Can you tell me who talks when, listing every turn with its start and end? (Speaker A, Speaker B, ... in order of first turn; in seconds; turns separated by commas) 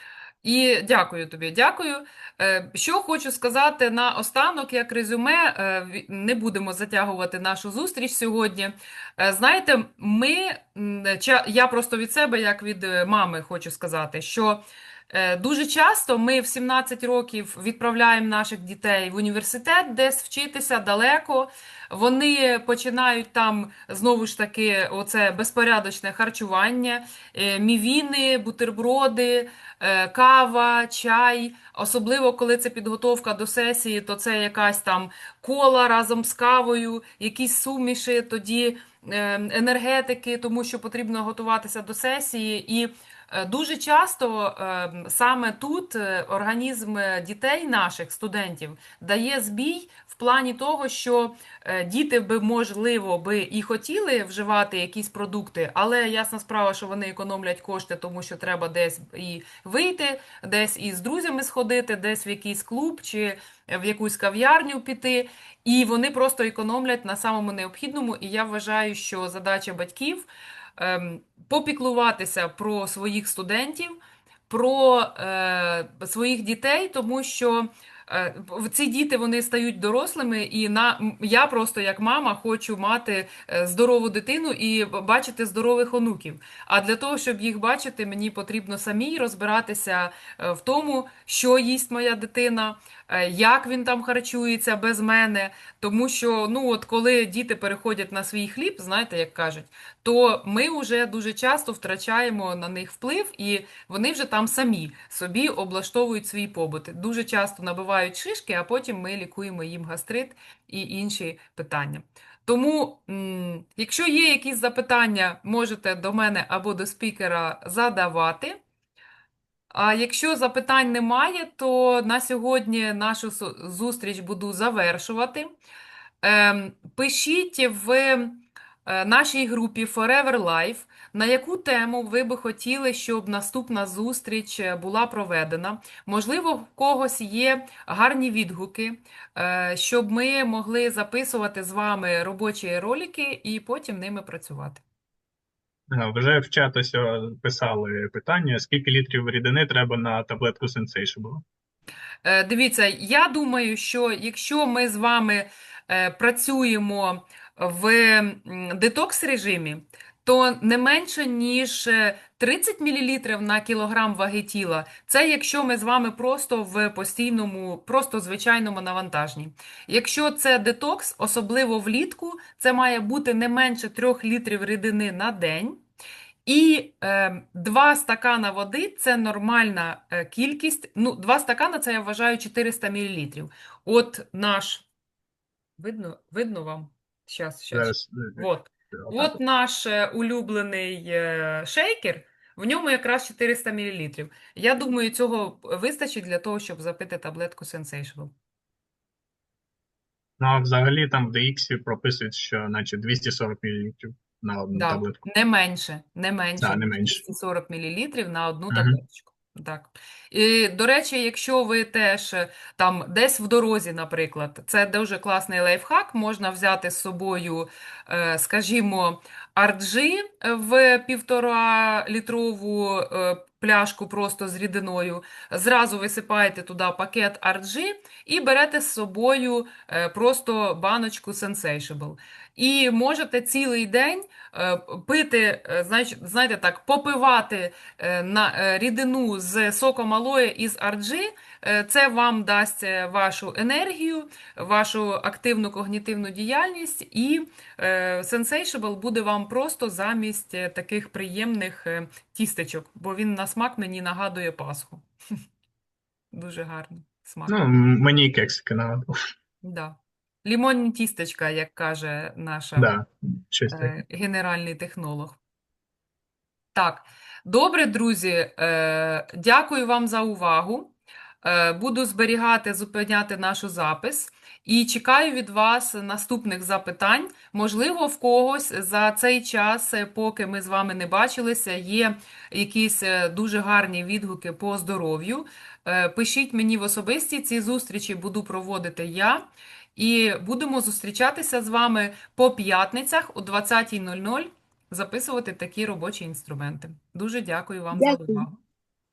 Speaker A: 0.4-74.0, Speaker A: 74.5-118.6, Speaker A: 119.7-125.5, Speaker A: 126.2-144.8, Speaker B: 145.9-151.4, Speaker A: 152.2-175.8, Speaker A: 176.4-184.9, Speaker A: 185.8-198.3, Speaker B: 187.7-189.4, Speaker B: 200.4-205.2, Speaker A: 204.7-255.0, Speaker B: 206.6-207.2, Speaker B: 208.7-209.0, Speaker A: 256.3-257.6, Speaker B: 257.5-259.1, Speaker A: 259.6-262.9, Speaker B: 262.8-263.9, Speaker A: 263.7-265.4, Speaker A: 266.7-298.6